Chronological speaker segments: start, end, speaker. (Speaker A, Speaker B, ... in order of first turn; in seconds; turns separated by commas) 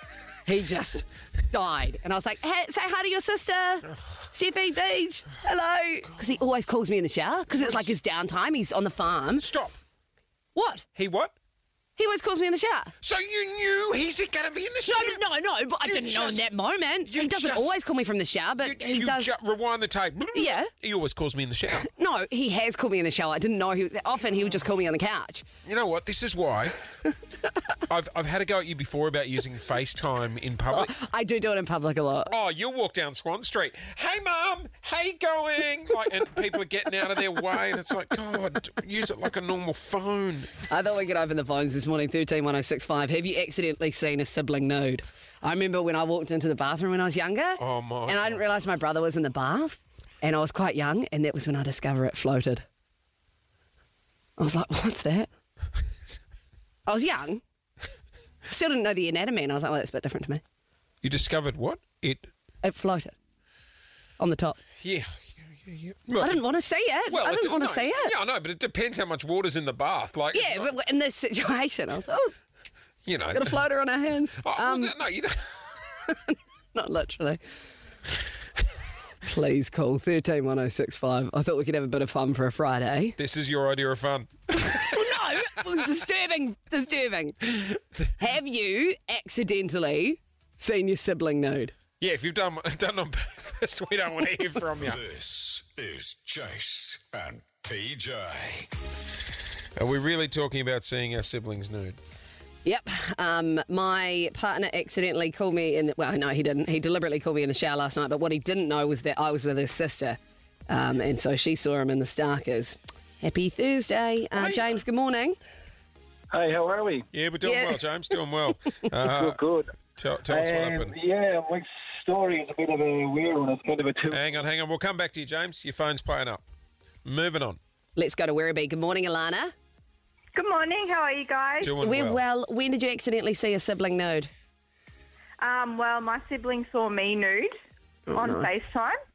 Speaker A: 0.5-9.4, Speaker B: 9.4-9.7, Speaker A: 10.5-10.8, Speaker B: 10.9-11.3, Speaker A: 12.0-12.9, Speaker B: 13.0-15.2, Speaker A: 14.8-19.3, Speaker B: 15.8-16.5, Speaker B: 17.1-17.8, Speaker B: 18.6-21.9, Speaker A: 20.3-20.7, Speaker A: 21.8-25.4, Speaker B: 25.6-26.8, Speaker B: 27.9-30.9, Speaker A: 30.7-32.3, Speaker B: 32.3-40.5, Speaker A: 40.7-52.6, Speaker B: 47.6-48.4, Speaker A: 54.4-55.3, Speaker A: 56.9-57.4, Speaker A: 58.5-60.4, Speaker B: 61.0-62.3, Speaker A: 62.6-63.1, Speaker A: 64.2-64.6, Speaker B: 64.8-66.4, Speaker A: 66.2-68.1, Speaker B: 67.1-70.7, Speaker A: 70.3-72.3, Speaker B: 73.0-73.6, Speaker A: 73.3-74.9, Speaker B: 74.4-75.6, Speaker A: 76.1-77.4, Speaker A: 79.2-83.2, Speaker B: 83.2-85.0, Speaker A: 84.6-91.7, Speaker B: 92.0-95.0, Speaker C: 94.8-98.7, Speaker B: 99.8-102.0, Speaker A: 102.6-110.2, Speaker A: 110.7-115.4, Speaker B: 114.3-114.6, Speaker D: 116.3-117.0, Speaker B: 117.1-119.4, Speaker A: 117.4-117.8, Speaker D: 119.1-119.7, Speaker B: 120.0-120.9, Speaker D: 120.3-124.2, Speaker B: 124.1-126.4, Speaker B: 127.0-127.6, Speaker A: 128.0-129.5, Speaker E: 130.3-131.7, Speaker B: 131.6-132.2, Speaker A: 131.8-134.3, Speaker E: 135.4-137.5, Speaker A: 138.1-138.5, Speaker E: 138.1-138.9